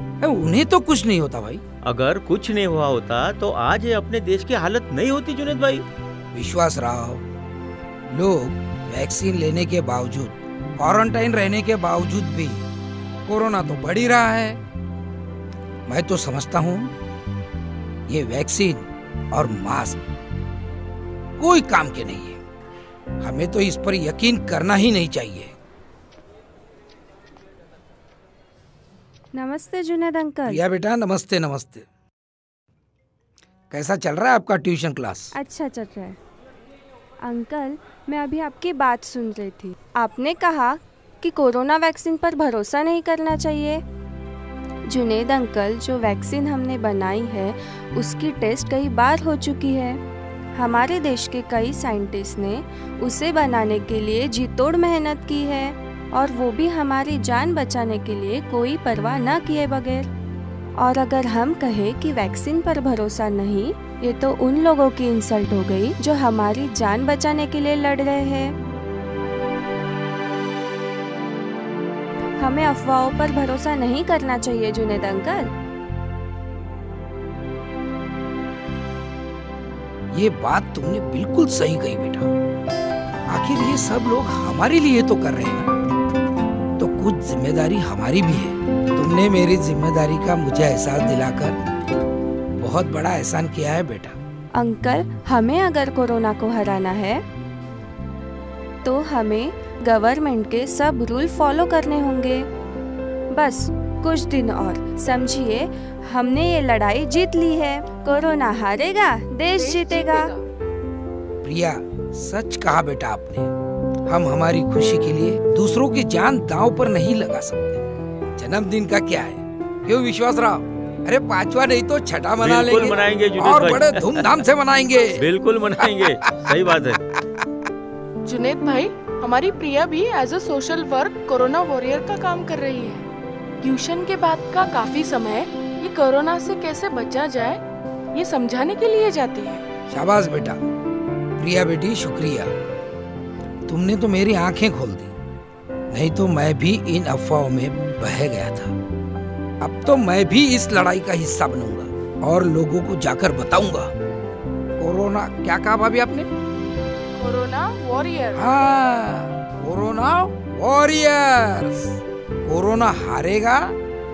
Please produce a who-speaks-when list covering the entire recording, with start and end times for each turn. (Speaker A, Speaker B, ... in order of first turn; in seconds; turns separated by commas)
Speaker A: 0.2-1.6, Speaker B: 1.8-5.8, Speaker A: 6.3-7.2, Speaker A: 8.1-12.6, Speaker A: 13.2-14.6, Speaker A: 15.9-16.9, Speaker A: 18.1-20.0, Speaker A: 21.4-22.4, Speaker A: 23.2-25.5, Speaker C: 29.3-30.6, Speaker A: 30.4-31.8, Speaker A: 33.7-35.3, Speaker C: 35.3-36.2, Speaker C: 37.2-43.8, Speaker C: 44.9-50.0, Speaker C: 50.5-60.1, Speaker C: 60.8-68.5, Speaker C: 72.4-75.5, Speaker A: 80.1-82.3, Speaker A: 83.3-85.7, Speaker A: 86.8-91.6, Speaker A: 92.6-94.2, Speaker C: 94.5-97.2, Speaker C: 98.8-102.5, Speaker C: 103.3-110.3, Speaker D: 109.5-110.5, Speaker A: 111.4-113.5, Speaker A: 114.1-117.8, Speaker A: 118.4-125.2, Speaker B: 122.4-124.4, Speaker B: 125.0-127.0, Speaker A: 125.9-126.5, Speaker D: 128.2-133.1, Speaker D: 133.6-137.6, Speaker D: 138.1-139.7, Speaker A: 139.9-140.6, Speaker A: 141.4-142.5, Speaker A: 143.7-145.1, Speaker A: 145.9-148.7, Speaker A: 149.6-153.9, Speaker A: 154.8-156.3, Speaker D: 157.2-158.5, Speaker A: 158.3-163.8